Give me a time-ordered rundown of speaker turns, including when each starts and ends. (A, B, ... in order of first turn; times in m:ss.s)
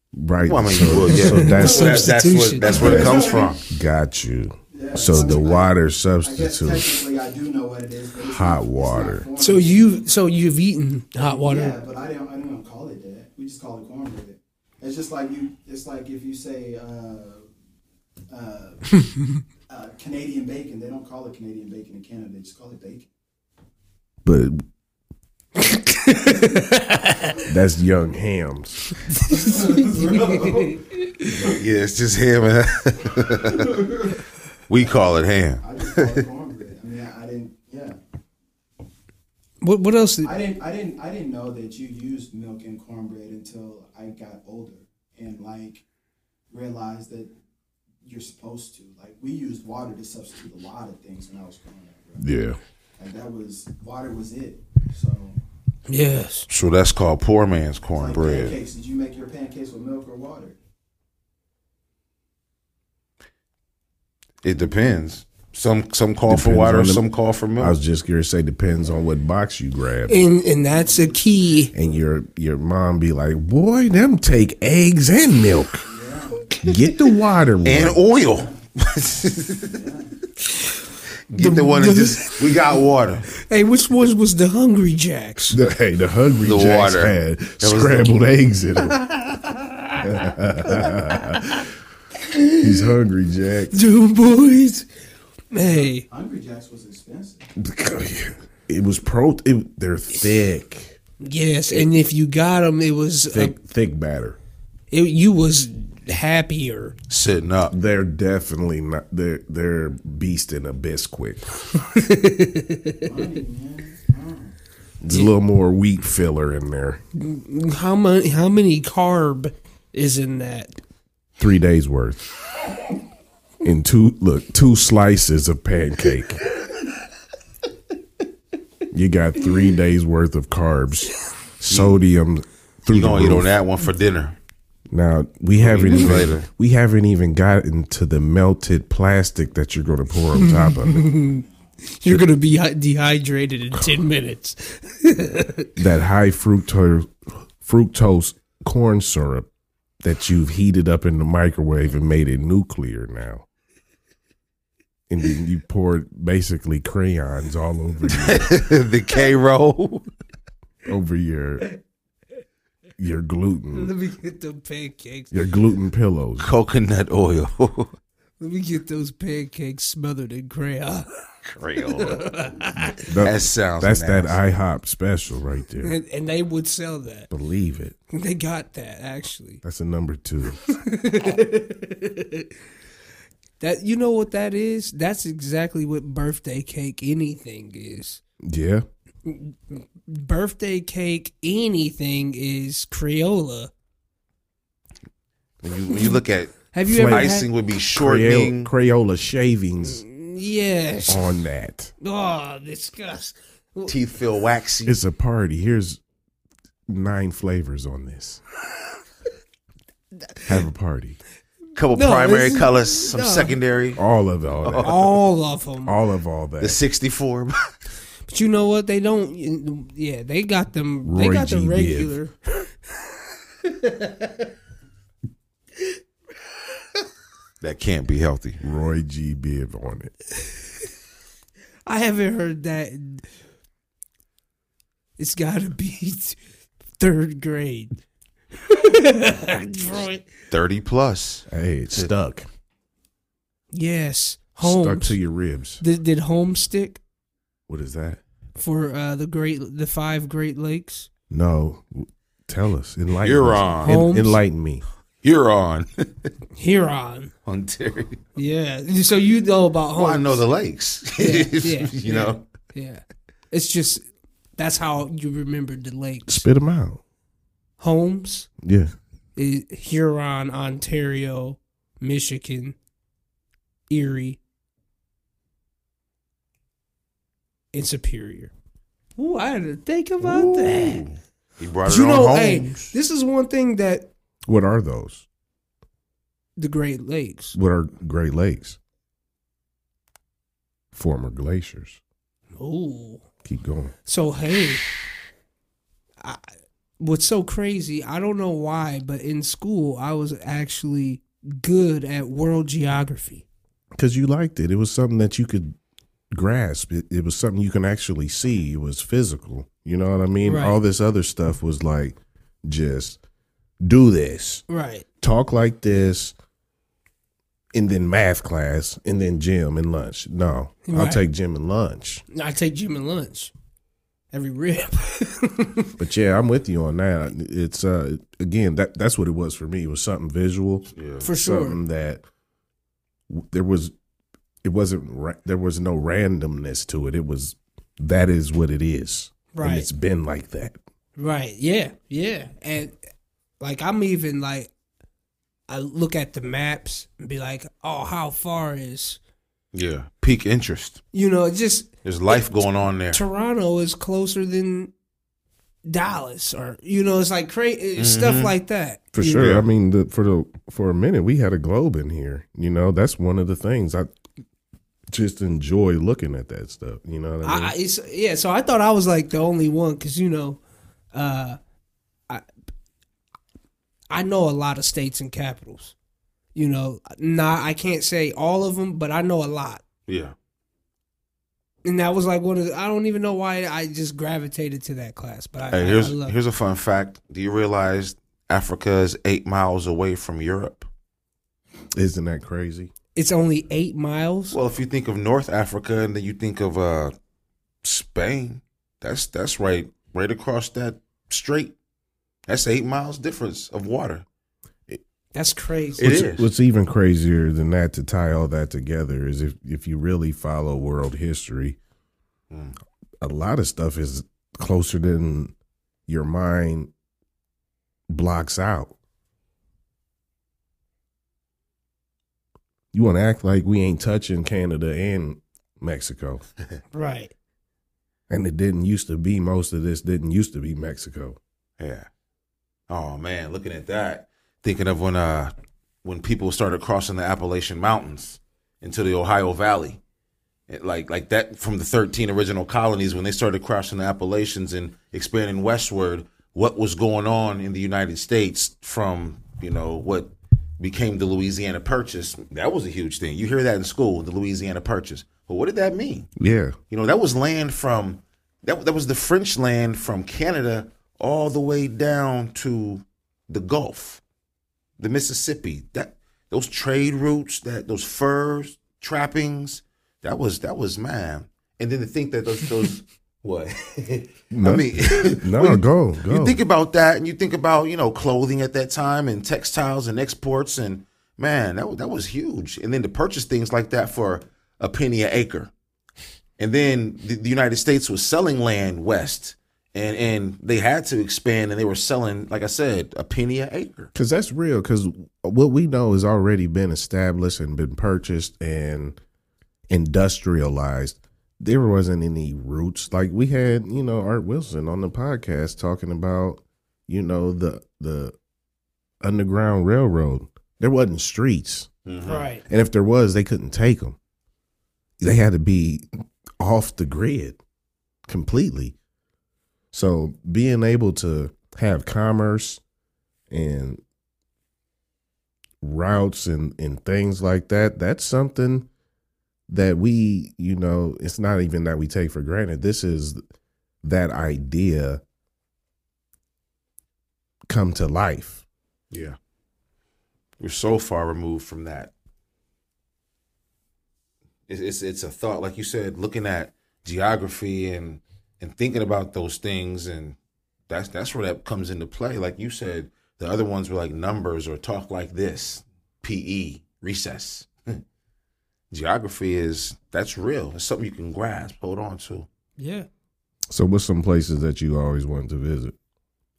0:00.2-0:02.1 A
0:00.4-0:03.6 B
0:01.1-0:03.0 C
0:02.7-0:03.6 D
0:02.7-0:07.0 A
0:04.7-0:10.0 D
0:08.2-0:09.3 A
0:09.4-0:11.8 C
0:11.2-0:17.5 D
0:18.3-0:19.0 D
0:19.7-0:23.1 D
0:24.2-0:24.6 A
0:25.6-0:27.4 C
0:27.5-0:28.8 A
0:29.2-0:30.9 D
0:29.4-0:31.3 C
0:31.4-0:33.8 B
0:33.4-0:34.2 D
0:34.7-0:36.2 B
0:34.8-0:38.0 D
0:39.6-0:40.3 C
0:40.2-0:45.8 D
0:46.5-0:47.3 D
0:48.0-0:52.2 D
0:52.2-0:52.6 A
0:53.0-0:55.4 D
0:55.9-0:56.5 C
0:56.5-0:58.6 B
0:58.0-1:00.6 D
1:04.4-1:07.8 B
1:06.3-1:07.0 A
1:07.6-1:10.2 A
1:10.1-1:11.7 C
1:10.6-1:11.3 D
1:11.7-1:15.9 A
1:15.9-1:16.6 D
1:16.6-1:18.0 A
1:17.6-1:19.8 B
1:19.7-1:20.1 D
1:21.3-1:23.3 B
1:21.4-1:22.6 C
1:23.4-1:25.6 C
1:25.5-1:29.0 A
1:26.4-1:28.2 B
1:29.0-1:30.0 C
1:30.0-1:31.6 A
1:30.6-1:31.7 C
1:32.3-1:32.7 C
1:32.6-1:33.8 A
1:33.7-1:34.8 C
1:35.5-1:36.0 C
1:35.6-1:37.5 D
1:37.6-1:41.0 A
1:41.2-1:43.6 C
1:43.3-1:44.4 A
1:44.9-1:47.0 C
1:47.1-1:47.8 B
1:47.7-1:51.5 A
1:51.8-1:53.1 C
1:53.0-1:54.6 D
1:55.0-1:57.0 A
1:57.2-2:00.8 C
2:01.4-2:02.2 A
2:03.6-2:06.4 A
2:08.9-2:13.6 A
2:11.7-2:12.0 B
2:12.9-2:14.4 B
2:14.9-2:21.1 A
2:15.6-2:16.5 B
2:20.4-2:25.7 C
2:23.7-2:24.0 A
2:25.8-2:29.5 A
2:30.0-2:33.4 A
2:35.1-2:38.5 A
2:38.1-2:40.1 B
2:40.9-2:41.7 A
2:43.0-2:43.9 A
2:43.7-2:45.3 C
2:45.3-2:46.5 A
2:46.4-2:47.9 B
2:48.4-2:51.1 C
2:51.5-2:52.2 B
2:51.8-2:53.1 C
2:53.1-2:56.0 A
2:53.2-2:54.4 B
2:55.8-2:57.3 C
2:57.3-2:58.0 A
2:58.1-2:59.6 C
2:59.6-3:00.6 A
3:00.7-3:02.5 C
3:03.6-3:08.2 C
3:08.4-3:08.8 A
3:09.3-3:13.7 C
3:15.6-3:18.7 B
3:15.9-3:16.2 C
3:16.7-3:17.5 C
3:16.9-3:17.4 A
3:17.9-3:20.0 A
3:19.8-3:21.2 C
3:21.1-3:21.9 A
3:22.0-3:24.0 C
3:23.9-3:25.0 B
3:24.8-3:26.0 A
3:26.9-3:28.4 A
3:30.5-3:31.2 A
3:31.8-3:34.0 B
3:31.9-3:33.6 C
3:34.0-3:35.0 A
3:34.6-3:35.1 B
3:34.8-3:36.0 C
3:35.8-3:36.8 A
3:36.6-3:37.7 B
3:38.3-3:42.4 C
3:41.0-3:42.2 A
3:43.6-3:44.5 C
3:47.6-3:48.6 B
3:48.6-3:50.1 A
3:51.9-3:53.3 C
3:55.2-3:56.4 C
3:57.0-3:58.0 C
3:58.6-4:00.2 C
4:00.5-4:02.1 B
4:01.5-4:02.5 A
4:03.7-4:05.2 C
4:04.6-4:05.8 A
4:05.8-4:07.0 C
4:07.7-4:08.2 A
4:08.6-4:11.1 C
4:11.3-4:14.8 A
4:13.2-4:14.0 B
4:13.8-4:14.4 C
4:15.2-4:16.3 B
4:16.6-4:17.3 C
4:17.5-4:18.2 B
4:18.4-4:20.4 C
4:20.0-4:22.4 B
4:21.2-4:24.0 C
4:24.6-4:26.5 C
4:26.3-4:27.0 A
4:27.8-4:28.5 C
4:28.6-4:28.9 A
4:29.4-4:32.8 C
4:33.9-4:34.4 C
4:37.7-4:38.5 C
4:39.2-4:41.0 C
4:40.2-4:42.9 B
4:41.9-4:44.1 C
4:44.5-4:45.2 A
4:46.6-4:47.6 C
4:47.5-4:48.8 A
4:50.9-4:52.0 A
4:52.6-4:53.2 C
4:53.4-4:54.0 A
4:54.1-4:54.8 C
4:57.0-5:03.4 C
5:04.0-5:05.7 A
5:06.3-5:13.2 A
5:10.4-5:10.8 C
5:13.8-5:14.6 A
5:14.7-5:15.0 C
5:15.2-5:16.3 A
5:17.7-5:22.2 A
5:20.9-5:21.2 C
5:22.3-5:23.5 C
5:24.3-5:25.9 C
5:26.0-5:32.2 A
5:31.0-5:31.3 B
5:31.2-5:31.8 C
5:33.3-5:33.9 A
5:34.6-5:40.8 A
5:39.5-5:39.9 C
5:41.2-5:43.0 C
5:43.6-5:44.7 C
5:45.7-5:49.2 C
5:49.7-5:51.0 B
5:51.1-5:54.9 C
5:52.0-5:53.2 B
5:55.8-5:59.5 C
5:58.0-5:58.5 B
5:59.1-6:04.1 A
5:59.4-5:59.7 B
6:05.1-6:07.8 A
6:07.4-6:10.6 C
6:11.1-6:11.6 C
6:14.1-6:15.9 C
6:16.6-6:19.8 C
6:20.1-6:20.4 B
6:21.8-6:26.4 C
6:25.7-6:30.9 B
6:31.9-6:32.9 A
6:33.2-6:34.6 C
6:34.5-6:37.1 B
6:37.8-6:41.8 B
6:42.5-6:44.2 B
6:45.3-6:46.1 C
6:46.0-6:46.5 B
6:46.0-6:51.8 A
6:52.5-6:52.8 B
6:53.2-6:55.5 A
6:56.1-6:56.9 A
6:58.1-6:59.0 A
7:02.9-7:06.4 A
7:06.9-7:07.3 C
7:08.3-7:11.4 A
7:11.8-7:12.1 B
7:12.9-7:15.5 B
7:16.0-7:20.0 B
7:20.7-7:36.3 B
7:36.4-7:36.8 A
7:36.9-7:44.2 B
7:45.0-8:05.7 B
7:54.5-7:56.6 A
8:06.6-8:14.1 B
8:14.2-8:19.2 A
8:19.9-8:28.4 A
8:29.2-8:31.9 A
8:32.1-8:32.5 B
8:32.2-8:32.6 C
8:32.7-8:34.2 A
8:35.2-8:36.1 A
8:36.6-8:37.6 A
8:38.3-8:39.0 A
8:39.9-8:42.8 A
8:43.5-8:44.0 A
8:45.8-8:48.9 A
8:49.7-8:53.4 A
8:54.0-8:55.2 A
8:57.7-8:58.6 A
8:59.1-8:59.4 B
9:00.6-9:02.1 B
9:04.7-9:10.4 B
9:10.9-9:18.0 B
9:18.9-9:22.5 B
9:22.8-9:23.1 C
9:23.7-9:26.0 A